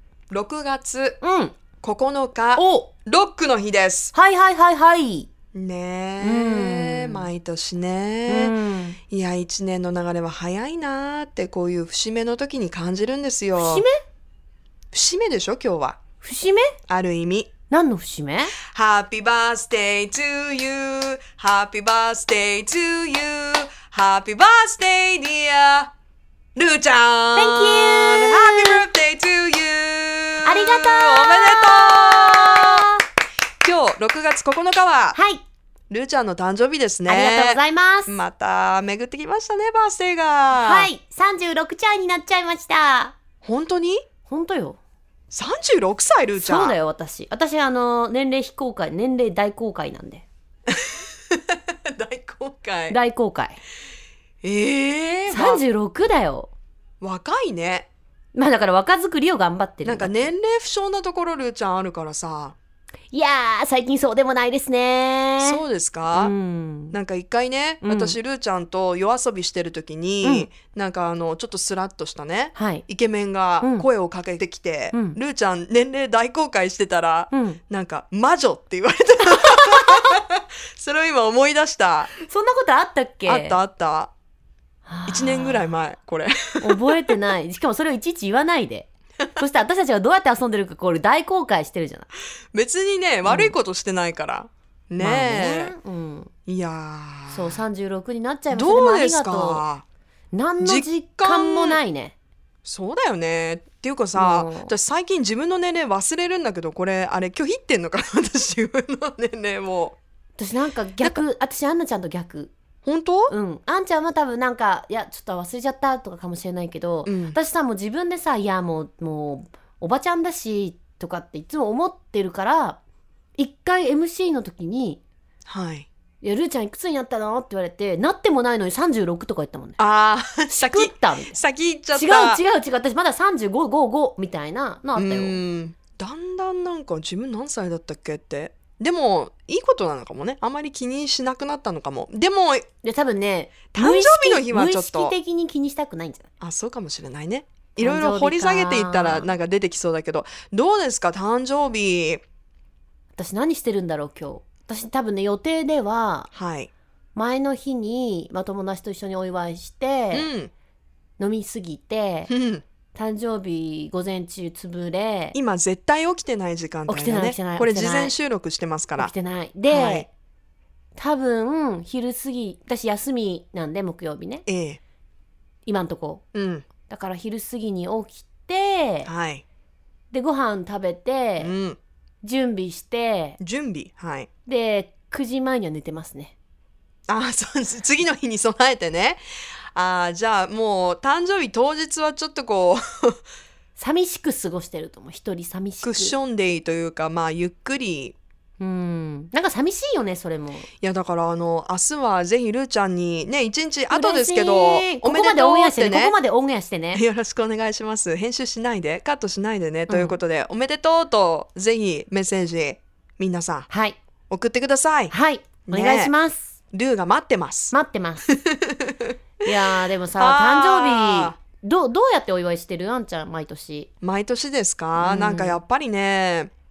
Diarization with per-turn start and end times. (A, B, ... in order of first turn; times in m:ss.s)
0:00.3-0:01.2 A
0:01.2-0:01.6 B
0:01.8-0:04.1 A
0:02.5-0:02.9 B
0:04.1-0:05.3 B
0:05.5-0:08.5 A
0:06.2-0:07.3 B
0:08.3-0:09.0 B
0:09.1-0:13.8 A
0:13.6-0:13.9 B
0:14.9-0:16.0 A
0:16.2-0:16.8 B
0:16.9-0:17.5 A
0:17.7-0:18.6 B
0:18.6-0:25.9 A
0:26.5-0:32.8 A
0:27.3-0:28.8 B
0:30.4-0:33.0 B
0:33.6-0:35.2 A
0:35.1-0:35.4 B
0:35.9-0:40.9 A
0:37.1-0:38.1 B
0:40.5-0:43.2 B
0:43.4-0:44.0 A
0:44.2-0:44.8 B
0:45.3-0:46.8 A
0:46.4-0:50.2 B
0:50.7-0:53.0 A
0:52.9-0:53.6 B
0:54.4-0:55.6 A
0:55.3-0:56.5 B
0:57.0-0:57.9 A
0:58.3-1:00.3 B
0:59.8-1:02.6 A
1:03.1-1:05.6 B
1:05.4-1:06.3 A
1:06.1-1:07.0 B
1:06.9-1:22.2 A
1:07.8-1:08.2 B
1:10.2-1:10.5 B
1:12.5-1:12.8 B
1:17.3-1:17.6 B
1:19.4-1:20.2 B
1:22.2-1:23.6 B
1:23.2-1:24.1 A
1:24.8-1:25.7 B
1:25.1-1:26.8 A
1:26.6-1:32.1 B
1:32.5-1:35.7 A
1:33.2-1:33.5 B
1:35.0-1:36.3 B
1:36.5-1:37.6 A
1:37.3-1:39.6 B
1:38.5-1:39.8 A
1:40.3-1:42.1 B
1:40.6-1:41.8 A
1:42.6-1:50.0 A
1:44.1-1:44.7 B
1:50.4-1:52.5 B
1:52.8-1:53.3 A
1:53.3-2:02.8 B
1:57.0-1:57.4 A
2:03.4-2:05.0 B
2:05.5-2:05.9 A
2:06.2-2:09.8 B
2:09.8-2:12.4 A
2:10.5-2:11.4 B
2:11.9-2:15.4 B
2:15.0-2:22.7 A
2:22.8-2:26.3 B
2:23.7-2:25.1 A
2:26.4-2:32.2 A
2:27.8-2:29.3 B
2:33.2-2:36.3 B
2:36.3-2:36.7 A
2:37.1-2:40.3 B
2:40.1-2:40.5 A
2:41.2-2:42.3 B
2:42.3-2:42.6 A
2:42.9-2:45.4 B
2:45.3-2:49.1 A
2:46.9-2:48.1 B
2:49.0-2:50.1 B
2:49.7-2:50.1 A
2:51.0-2:54.4 B
2:54.5-2:54.8 A
2:55.6-2:56.2 B
2:56.3-2:56.7 A
2:56.9-2:59.1 B
2:59.0-2:59.4 A
3:00.1-3:01.5 B
3:01.4-3:01.8 A
3:02.2-3:03.4 B
3:03.4-3:04.3 A
3:04.4-3:06.3 B
3:07.1-3:09.2 A
3:09.7-3:13.2 A
3:13.8-3:16.1 B
3:15.8-3:18.2 A
3:18.6-3:20.7 B
3:20.8-3:26.1 A
3:23.9-3:27.0 B
3:26.9-3:33.7 A
3:29.9-3:30.2 B
3:33.7-3:34.0 B
3:34.3-3:35.1 A
3:35.1-3:36.5 B
3:35.6-3:36.1 A
3:36.7-3:37.7 A
3:37.7-3:38.2 B
3:38.3-3:39.1 A
3:39.4-3:43.9 B
3:40.2-3:41.3 A
3:44.0-3:46.5 A
3:45.0-3:45.6 B